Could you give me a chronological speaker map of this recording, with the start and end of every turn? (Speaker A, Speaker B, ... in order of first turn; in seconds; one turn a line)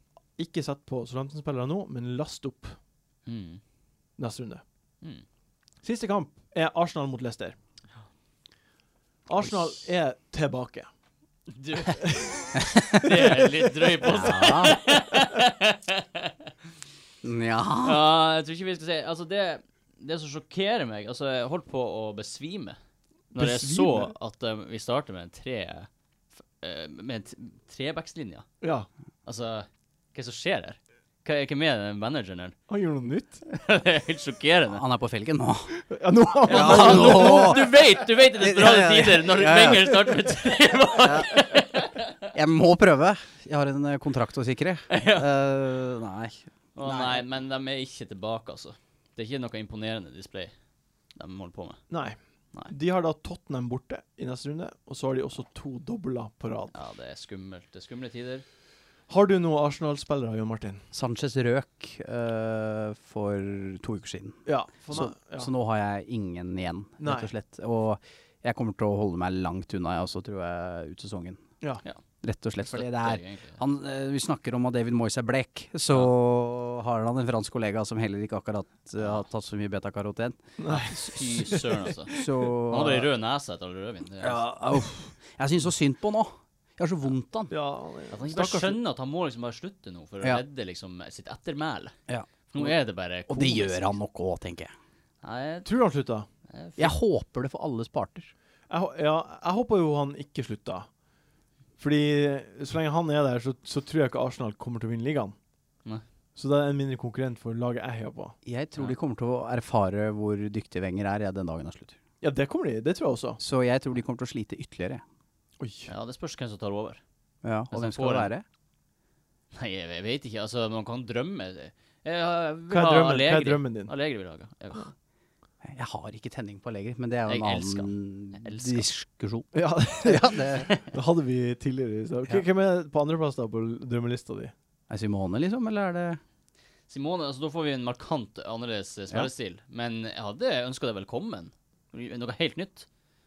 Speaker A: 0.3-2.8
Speaker B: 3.2-3.6
Speaker A: 4.2-4.6
Speaker A: 5.8-7.6
Speaker A: 9.3-10.9
Speaker B: 11.5-16.3
Speaker A: 11.9-12.4
Speaker A: 13.1-13.7
Speaker C: 14.1-14.8
Speaker C: 17.2-18.0
Speaker B: 17.8-22.8
Speaker B: 23.3-25.9
Speaker A: 23.4-24.1
Speaker B: 26.6-28.5
Speaker A: 28.6-28.9
Speaker B: 29.2-32.5
Speaker A: 32.7-33.4
Speaker B: 33.5-34.8
Speaker C: 34.7-35.8
Speaker A: 35.9-37.8
Speaker C: 36.5-37.7
Speaker B: 36.5-42.1
Speaker C: 38.4-40.2
Speaker C: 41.0-41.4
Speaker C: 42.3-47.2
Speaker B: 44.9-45.3
Speaker B: 46.8-50.5
Speaker B: 51.1-51.8
Speaker A: 51.9-56.7
Speaker B: 56.7-58.4
Speaker A: 59.1-60.8
Speaker C: 60.9-71.5
Speaker A: 64.5-65.5
Speaker A: 67.0-67.3
Speaker C: 72.2-80.4
Speaker B: 72.6-73.6
Speaker B: 79.0-79.2
Speaker A: 80.6-81.6
Speaker B: 80.7-84.4
Speaker C: 82.1-83.1
Speaker C: 84.2-87.5
Speaker A: 84.3-84.8
Speaker A: 87.5-88.8
Speaker B: 88.1-91.9
Speaker B: 92.5-94.0
Speaker C: 93.3-94.7
Speaker B: 95.2-95.7
Speaker A: 95.6-96.3
Speaker B: 96.5-96.9
Speaker C: 96.8-98.3
Speaker A: 98.7-100.9
Speaker A: 101.8-105.3
Speaker A: 106.3-108.3
Speaker C: 108.4-112.0
Speaker A: 112.2-113.4
Speaker C: 113.4-115.0
Speaker A: 115.6-115.9
Speaker B: 115.9-117.0
Speaker C: 117.4-118.4
Speaker B: 117.7-118.3
Speaker B: 119.5-124.9
Speaker A: 122.7-123.9
Speaker C: 125.6-130.7
Speaker B: 127.2-128.9
Speaker A: 129.5-134.5
Speaker C: 134.9-136.2
Speaker B: 136.9-142.9